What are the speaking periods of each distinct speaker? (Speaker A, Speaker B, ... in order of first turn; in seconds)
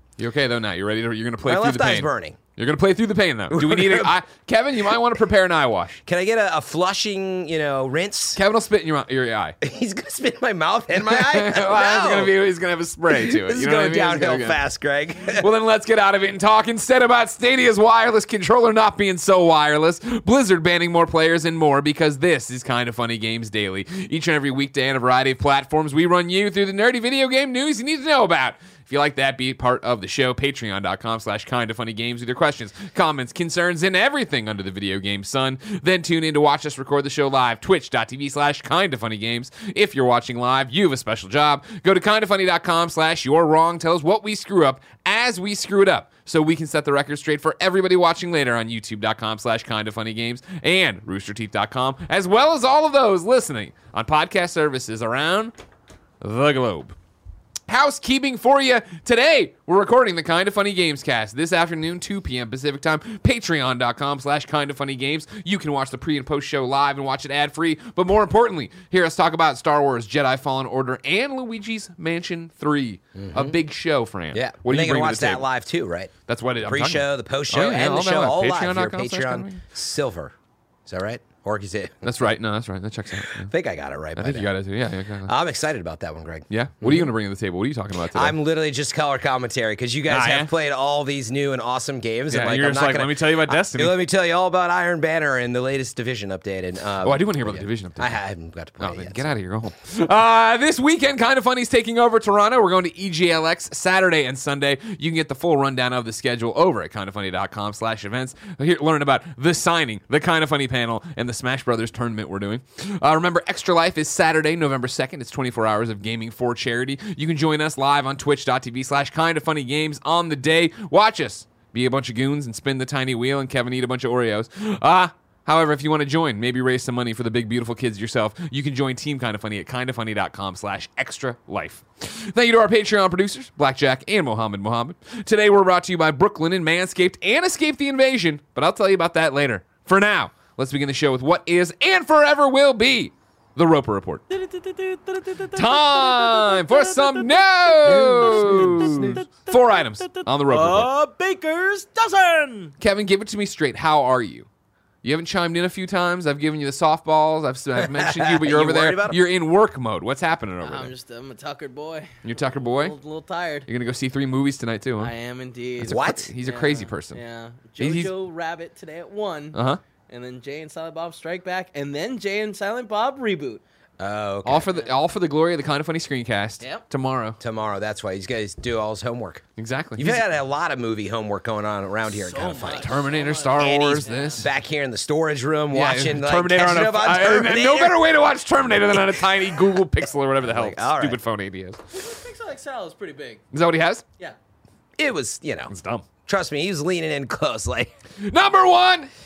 Speaker A: 0.2-6.0, 8.3-9.6, 10.9-14.6, 15.2-55.5, 56.2-57.0, 57.7-75.5, 76.3-79.6, 82.0-83.5, 84.2-85.3, 86.5-88.3, 90.1-90.5, 92.3-94.0, 97.0-98.2, 98.8-144.2, 145.5-150.9, 152.8-154.5, 155.0-160.9, 162.2-162.9, 163.7-165.1, 165.8-167.2, 167.8-168.1, 169.5-169.8, 174.4-177.4, 179.6-180.2, 182.6-184.5, 185.7-191.8, 193.5-194.0, 195.7-196.1, 198.2-199.1
Speaker B: 1.4-2.4, 3.5-4.1, 6.0-8.4, 9.6-12.3, 13.1-15.4, 73.2-73.5, 74.3-76.1, 76.7-80.3, 80.8-82.1, 83.3-84.5, 85.2-87.1, 88.1-99.2, 148.0-149.1, 157.8-159.2, 165.8-166.3, 174.0-174.7, 177.4-179.4, 180.0-183.0, 183.6-188.0, 190.4-191.2, 195.0-195.7, 196.2-197.9
Speaker C: 144.3-152.7, 160.6-163.7, 165.0-173.6, 182.3-184.5, 191.9-193.4